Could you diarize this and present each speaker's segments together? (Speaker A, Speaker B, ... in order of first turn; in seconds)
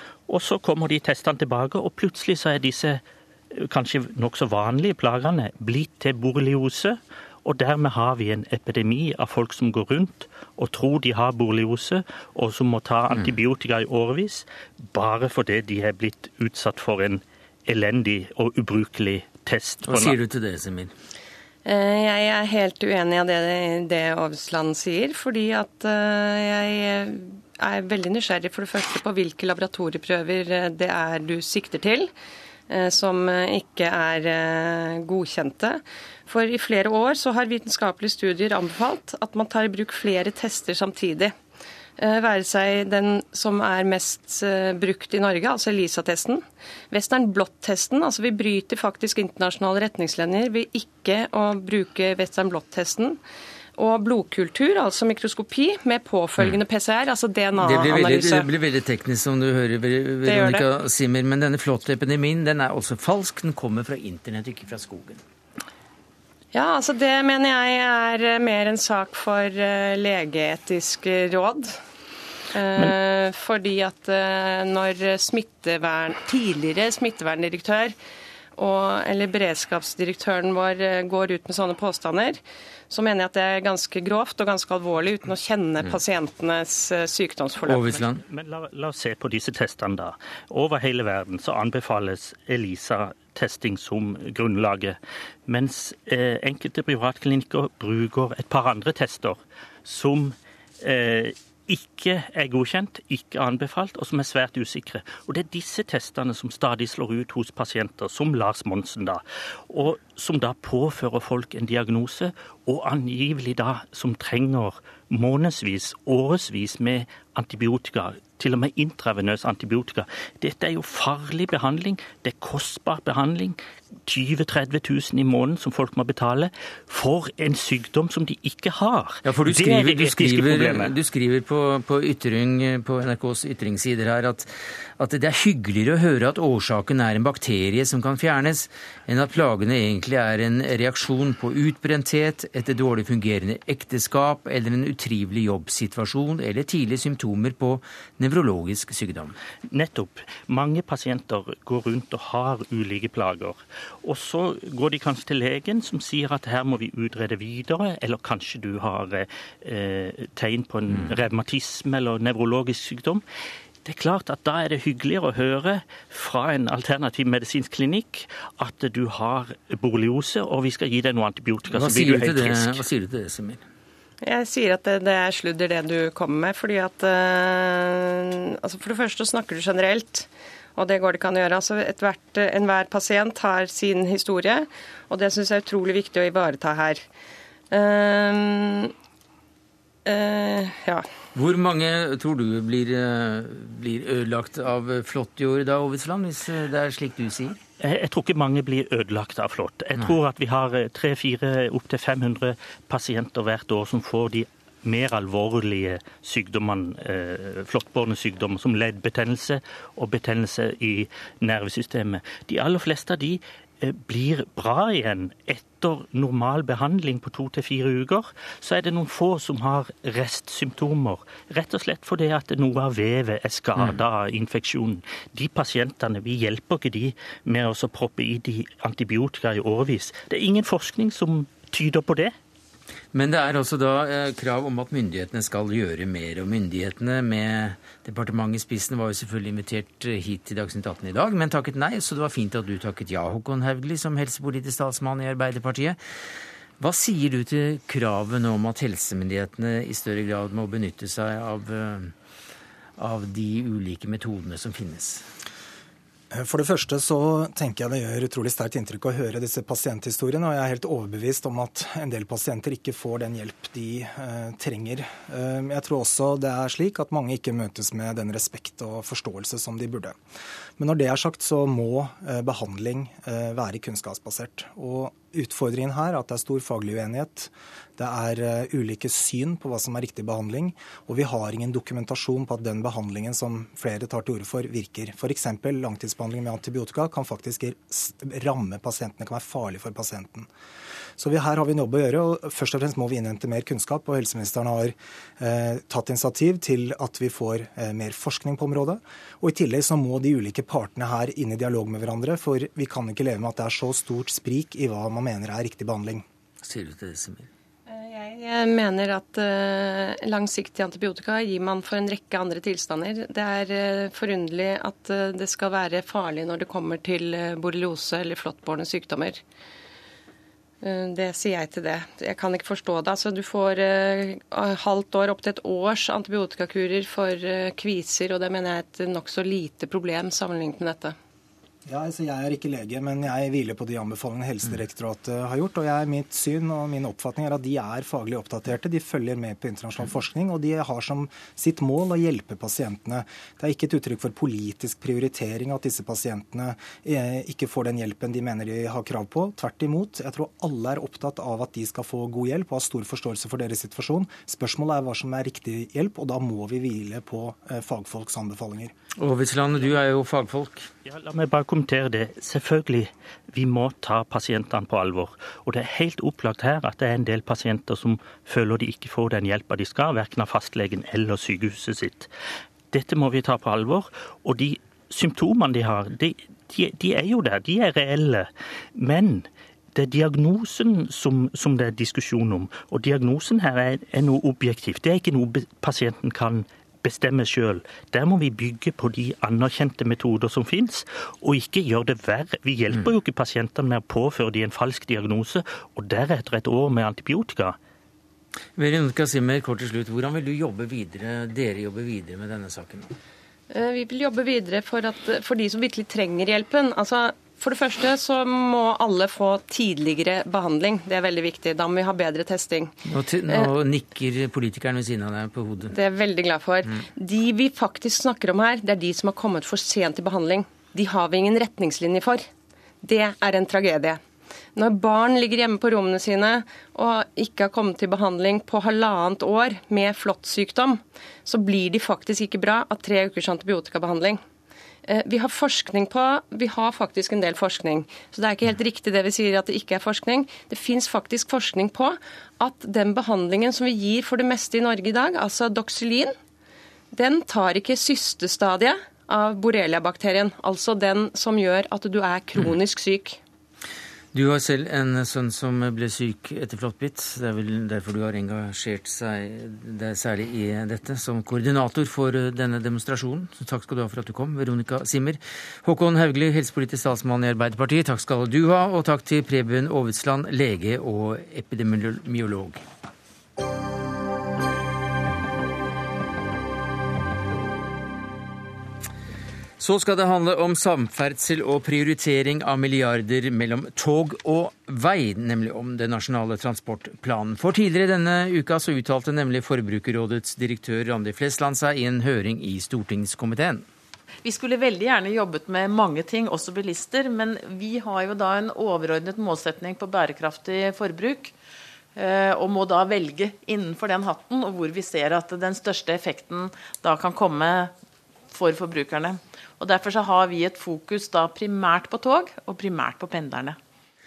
Speaker A: 0.3-3.0, 3.5-20.2, 88.3-130.9, 149.7-163.2, 163.8-172.8, 197.8-232.3, 361.0-372.3, 372.9-397.8
Speaker B: 19.8-20.9, 57.6-65.2, 87.7-88.2, 129.2-149.3, 171.7-173.6, 191.3-197.6, 233.1-246.0, 246.8-252.1, 253.0-255.3, 306.6-307.5, 359.2-360.9, 398.8-403.1, 413.1-415.9, 454.3-472.8, 479.8-493.8
Speaker C: 21.6-32.1, 32.7-41.3, 42.0-53.2, 53.8-58.5, 60.2-60.6, 66.5-71.8, 72.5-77.9, 78.6-88.0, 174.2-187.0, 187.7-188.9, 190.1-191.0, 307.9-319.4, 320.8-331.1, 403.7-412.9, 415.9-422.5, 423.0-424.2, 424.8-434.4, 435.1-446.3, 447.1-453.4
Speaker D: 256.3-270.1, 270.8-290.5, 291.2-306.2, 331.9-358.9
Speaker E: 494.4-501.5, 502.1-507.9, 508.5-513.8